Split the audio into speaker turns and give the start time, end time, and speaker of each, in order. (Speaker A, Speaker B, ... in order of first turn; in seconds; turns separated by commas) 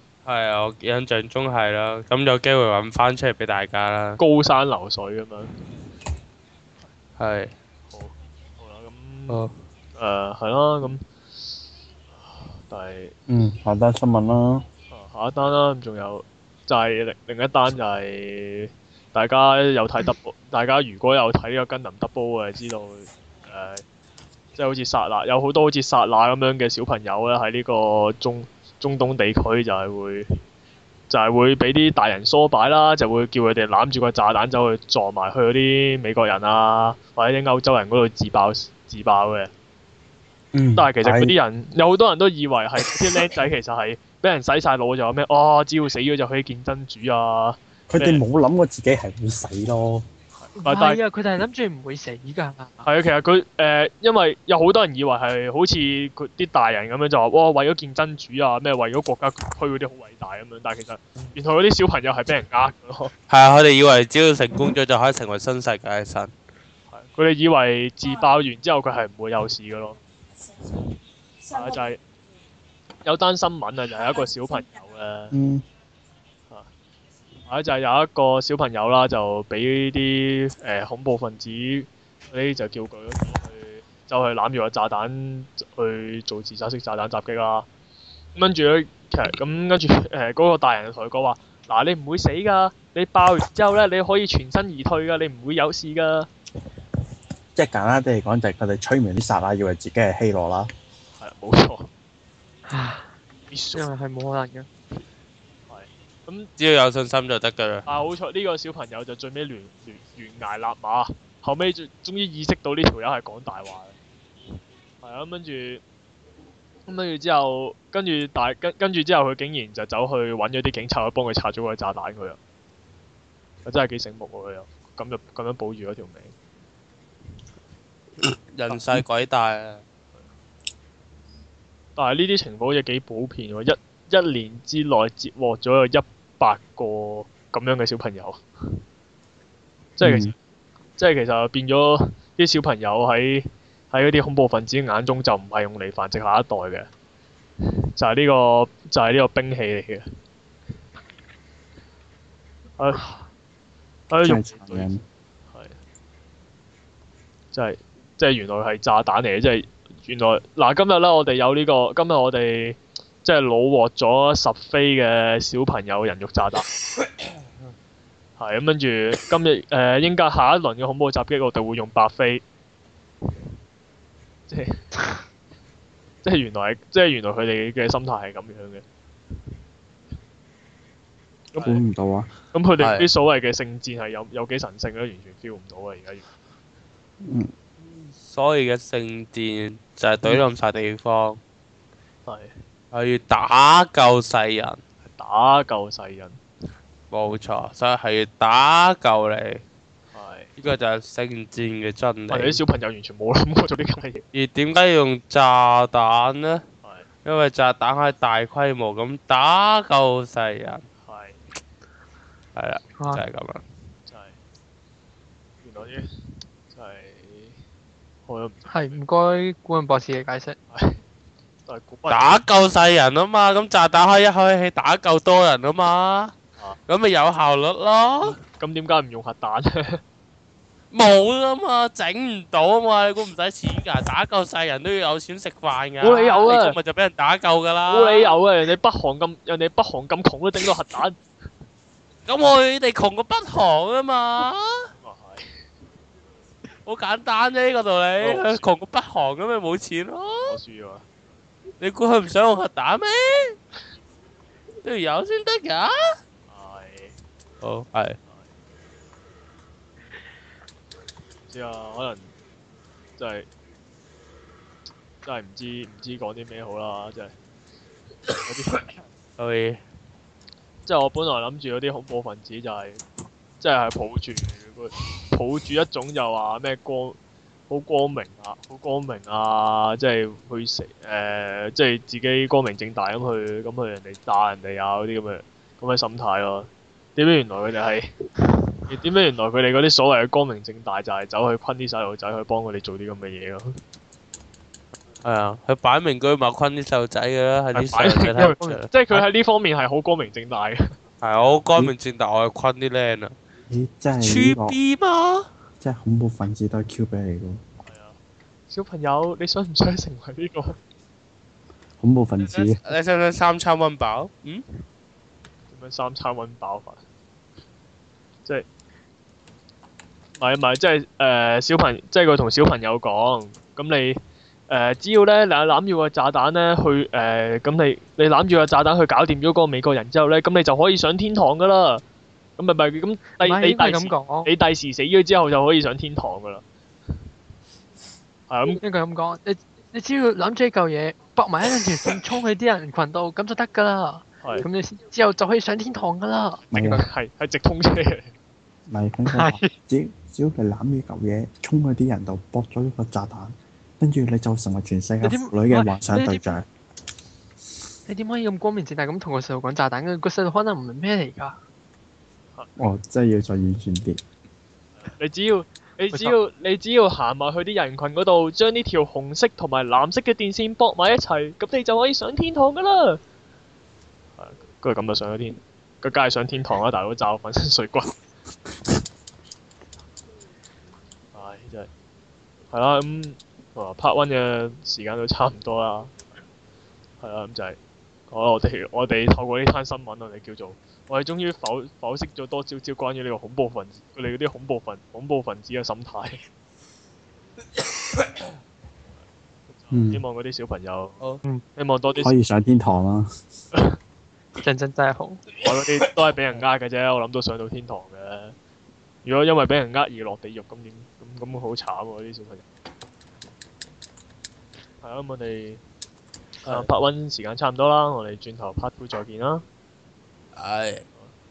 Speaker A: 0.2-4.2, Speaker B: 4.2-5.5, Speaker A: 7.2-7.5, Speaker B: 7.9-9.4, Speaker B: 10.0-11.0, Speaker B: 12.2-13.1, Speaker C: 13.3-14.7, Speaker B: 14.9-23.9, Speaker B: 24.6-30.3, Speaker B: 31.1-39.5, Speaker C: 40.5-41.4, Speaker B: 40.8-48.2, Speaker C: 47.9-50.1, Speaker B: 50.4-51.0, Speaker D: 50.6-52.9, Speaker B: 52.9-63.1, Speaker A: 63.3-66.3, Speaker B: 66.9-70.0, Speaker B: 71.5-72.0, Speaker B: 73.0-75.4, Speaker C: 75.3-75.6, Speaker B: 77.5-87.7, Speaker B: 88.3-96.3, Speaker C: 97.6-100.7, Speaker B: 101.2-101.9, Speaker D: 102.7-103.1, Speaker B: 103.5-103.9, Speaker D: 103.7-104.7, Speaker B: 105.7-106.5, Speaker A: 106.6-107.9, Speaker B: 107.9-114.0, Speaker B: 115.0-115.8, Speaker B: 116.9-122.4, Speaker B: 123.7-126.3, Speaker A: 128.3-129.8, Speaker B: 132.0-138.8, Speaker B: 140.0-140.3, Speaker C: 140.0-140.3, Speaker B: 141.0-146.9, Speaker B: 148.0-150.1, Speaker B: 152.8-153.2, Speaker B: 154.1-154.9, Speaker C: 154.2-155.0, Speaker B: 155.5-155.8, Speaker B: 157.5-166.7, Speaker B: 168.4-172.4, Speaker B: 174.5-174.9, Speaker B: 176.2-178.8, Speaker B: 181.6-181.8, Speaker C: 181.6-182.3, Speaker B: 182.5-186.3, Speaker A: 182.8-183.1, Speaker C: 187.2-187.5, Speaker A: 188.2-191.4, Speaker B: 192.3-192.6, Speaker A: 192.9-194.8, Speaker B: 195.1-196.4, Speaker A: 197.1-199.6, Speaker B: 200.1-200.5, Speaker A: 200.6-202.6, Speaker B: 202.3-204.3, Speaker A: 204.3-206.6, Speaker A: 207.2-210.8, Speaker B: 211.0-211.4, Speaker A: 212.6-213.6, Speaker B: 214.1-214.4, Speaker B: 215.6-216.1, Speaker B: 216.7-217.6, Speaker B: 218.3-219.0, Speaker D: 218.7-220.6, Speaker B: 220.7-221.0, Speaker B: 221.7-222.4, Speaker A: 222.1-226.3, Speaker A: 226.9-228.4, Speaker B: 228.4-230.0, Speaker A: 230.9-238.3, Speaker B: 236.0-236.8, Speaker B: 237.9-241.2, Speaker A: 242.3-244.9, Speaker B: 245.0-245.5, Speaker A: 246.8-250.5, Speaker B: 248.2-248.7, Speaker B: 250.4-251.1, Speaker A: 251.8-253.6, Speaker A: 254.8-255.9, Speaker B: 256.5-257.2, Speaker A: 257.6-258.2, Speaker B: 261.5-262.3, Speaker B: 263.2-263.5, Speaker B: 265.2-267.4, Speaker B: 268.4-269.0, Speaker A: 269.4-269.8, Speaker B: 270.9-273.0, Speaker B: 273.6-277.2, Speaker B: 277.7-288.1, Speaker B: 288.9-293.8, Speaker A: 295.2-298.9, Speaker B: 297.8-300.9, Speaker D: 298.4-299.2, Speaker A: 301.2-303.4, Speaker C: 303.7-304.8, Speaker A: 304.2-305.5, Speaker C: 305.8-307.6, Speaker B: 307.8-308.2, Speaker B: 308.7-310.8, Speaker C: 312.0-312.8, Speaker A: 312.4-314.6, Speaker B: 315.7-317.0, Speaker B: 320.4-332.0, Speaker B: 332.6-336.6, Speaker D: 333.4-334.5, Speaker B: 338.5-338.8, Speaker D: 338.8-347.1, Speaker B: 344.4-344.7, Speaker C: 346.7-347.0, Speaker B: 346.9-348.3, Speaker C: 348.9-356.6, Speaker D: 349.3-349.7, Speaker D: 355.2-356.5, Speaker D: 358.1-361.6, Speaker C: 362.8-364.2, Speaker B: 365.0-373.2, Speaker B: 374.4-378.1, Speaker B: 381.3-381.9, Speaker B: 382.7-386.1, Speaker B: 387.2-387.8, Speaker B: 388.3-396.4, Speaker B: 399.7-401.2, Speaker C: 399.9-400.2, Speaker B: 401.8-402.3, Speaker C: 402.2-403.3, Speaker D: 404.6-405.4, Speaker B: 405.6-408.6, Speaker B: 409.2-412.6, Speaker B: 415.0-415.8, Speaker B: 416.6-419.6, Speaker A: 420.6-421.0